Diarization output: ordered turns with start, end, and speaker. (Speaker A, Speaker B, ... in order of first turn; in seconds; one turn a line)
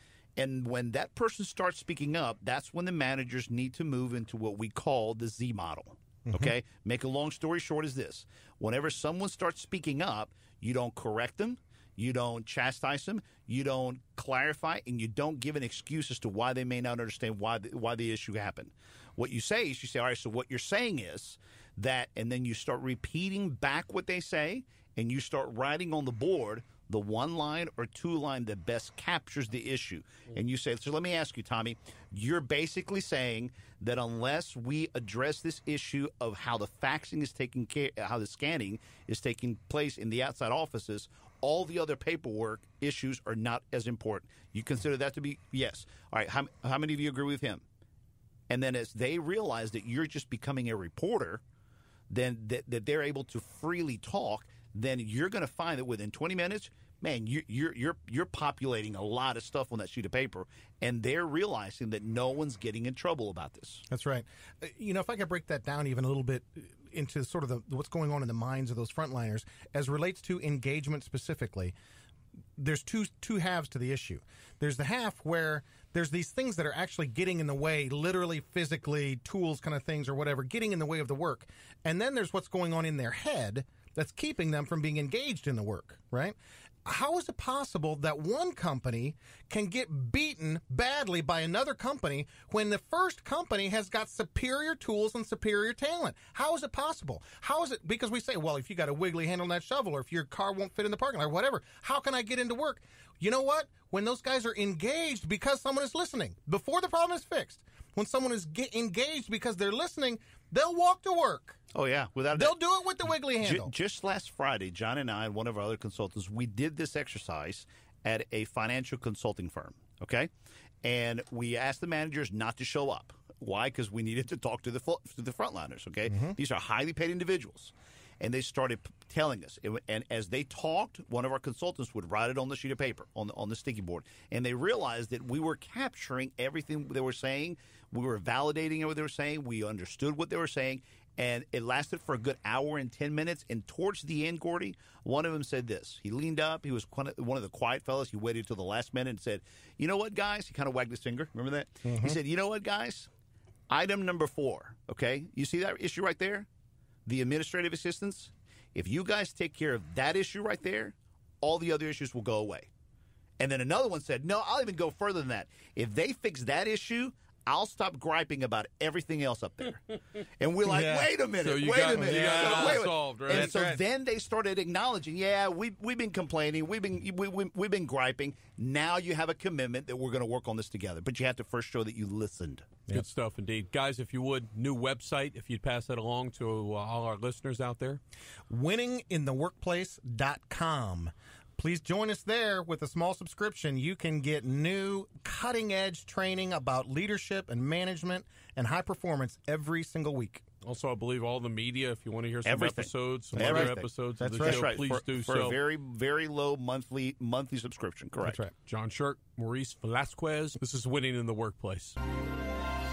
Speaker A: 0.4-47.6
Speaker B: 6.3-6.5
Speaker A: 48.5-51.4
Speaker A: 52.1-63.8
Speaker B: 63.9-71.7
Speaker B: 72.6-111.6
Speaker A: 111.7-120.3
Speaker B: 112.3-113.7
Speaker A: 120.8-153.1
Speaker B: 126.1-126.4
Speaker B: 151.8-152.2
Speaker A: 153.7-156.5
Speaker A: 157.1-162.7
Speaker A: 163.4-182.7
Speaker B: 170.6-171.1
Speaker C: 171.4-173.6
Speaker B: 171.9-173.8
Speaker C: 182.9-188.0
Speaker B: 188.5-200.4
Speaker C: 200.6-205.6
Speaker A: 202.4-208.4
Speaker B: 203.3-204.7
Speaker C: 208.3-212.0